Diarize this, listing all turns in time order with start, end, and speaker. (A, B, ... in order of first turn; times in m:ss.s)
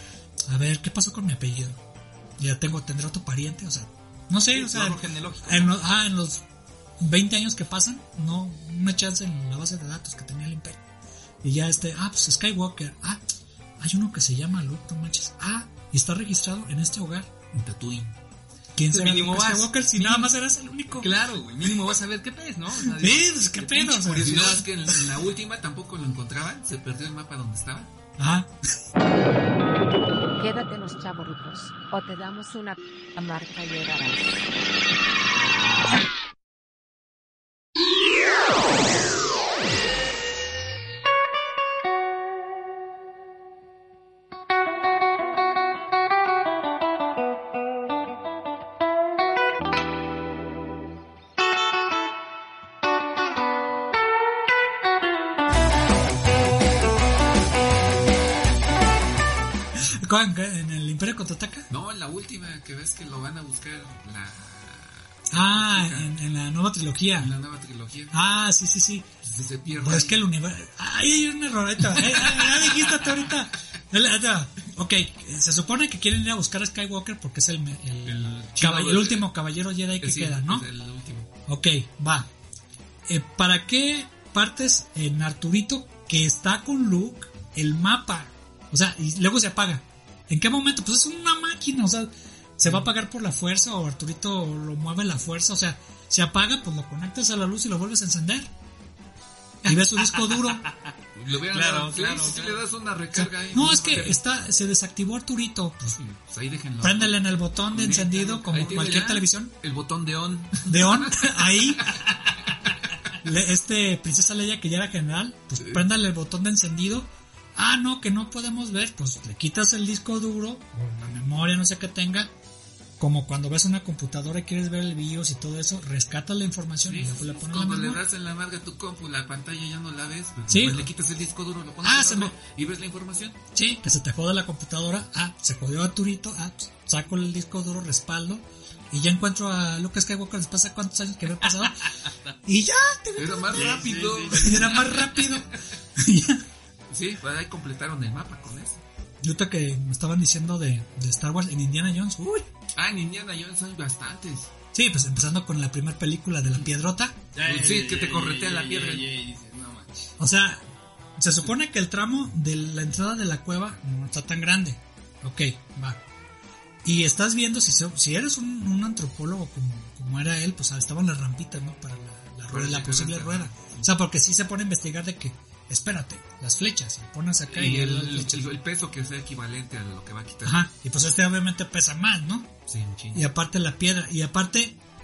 0:00.5-0:01.8 A
0:02.4-0:06.4 A
0:04.5-0:05.7 B
0:07.0-0:10.8 A
0:11.4-0:13.2 A
0:13.8-0:17.3 A
0:17.5-0:18.2 C
0:18.8-0:21.8 A
0:18.9-0:20.3 B
0:21.0-0:24.7 B
0:22.8-0:24.7 A
0:24.2-0:27.9 C
0:28.2-0:28.5 A
0:30.4-0:34.5 D
0:59.8-1:01.7 A
1:01.7-1:06.1 C
1:05.3-1:07.3 A
1:07.2-1:08.2 C
1:08.1-1:09.1 A
1:09.2-1:10.2 C
1:09.7-1:20.7 A
1:11.9-1:13.3 C
1:18.0-1:19.3 C
1:20.0-1:21.3 C
1:21.5-1:22.3 A
1:23.1-1:38.5 A
1:39.7-1:40.6 A
1:39.7-1:42.6 B
1:41.2-1:44.2 C
1:43.2-1:46.0 A
1:45.8-1:53.1 C
1:46.8-1:49.5 A
1:48.7-1:49.1 B
1:50.7-1:52.0 A
1:53.2-2:02.3 A
2:03.0-2:08.0 A
2:06.8-2:13.4 C
2:10.5-2:10.9 A
2:11.8-2:12.4 A
2:13.5-2:26.4 A
2:23.2-2:25.4 C
2:23.5-2:24.8 B
2:26.9-2:28.8 C
2:29.2-2:32.5 A
2:32.8-2:34.5 C
2:34.7-2:37.2 A
2:37.3-2:40.1 B
2:37.4-2:39.1 C
2:40.2-2:40.6 A
2:41.2-2:46.0 A
2:46.8-2:58.5 A
2:52.5-2:53.9 C
2:57.5-3:00.7 C
3:00.4-3:02.5 A
3:02.7-3:03.3 C
3:03.1-3:04.8 A